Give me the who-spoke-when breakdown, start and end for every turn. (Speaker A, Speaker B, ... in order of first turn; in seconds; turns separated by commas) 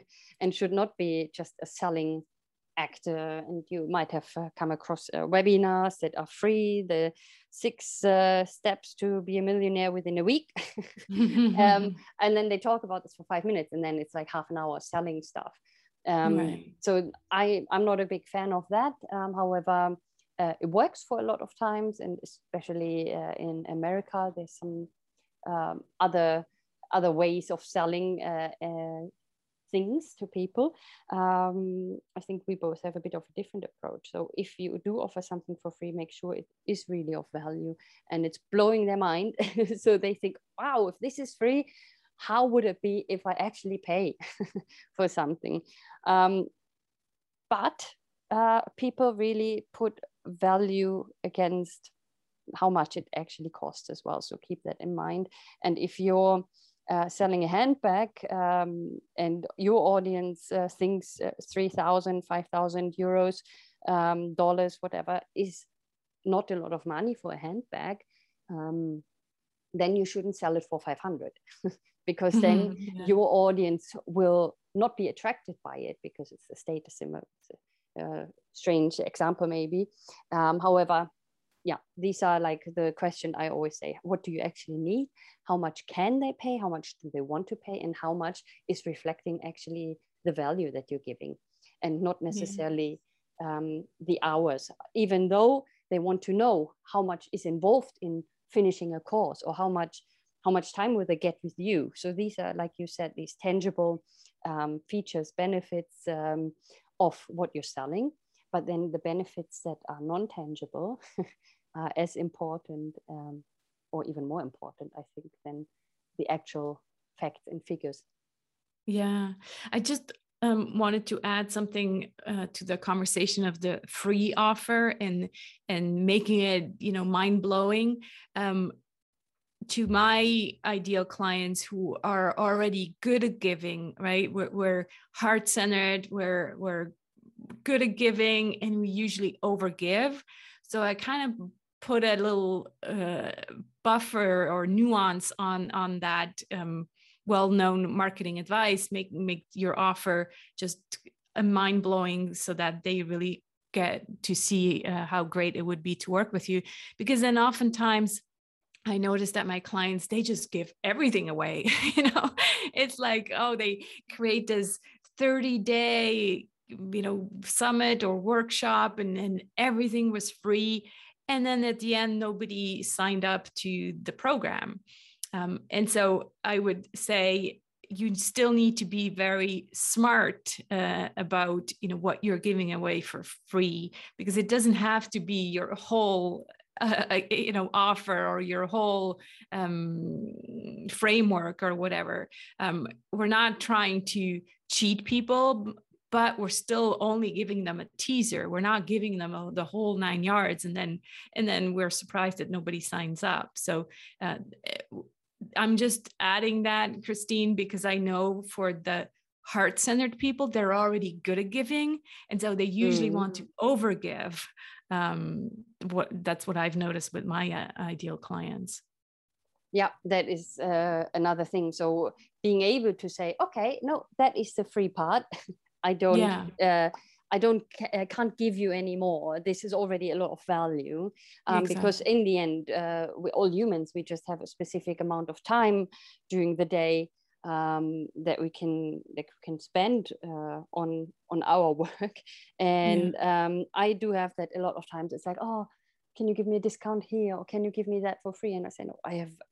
Speaker A: 0.4-2.2, Speaker A: 2.8-24.9, Speaker B: 11.1-12.0, Speaker B: 16.3-16.7, Speaker A: 25.4-29.1, Speaker A: 29.7-46.5, Speaker A: 47.5-51.9, Speaker A: 52.5-65.7, Speaker A: 66.2-69.0, Speaker A: 69.8-71.4, Speaker A: 72.1-81.1, Speaker B: 72.3-73.1, Speaker A: 81.7-111.0, Speaker B: 92.3-92.6, Speaker A: 111.7-115.7, Speaker A: 116.2-118.0, Speaker B: 118.9-128.7, Speaker B: 129.7-136.9, Speaker B: 137.6-158.2, Speaker B: 158.9-174.8, Speaker B: 175.3-218.8, Speaker A: 212.8-213.4, Speaker A: 219.7-225.3, Speaker A: 225.8-249.3, Speaker B: 226.1-226.5, Speaker B: 231.5-231.9, Speaker B: 242.8-243.1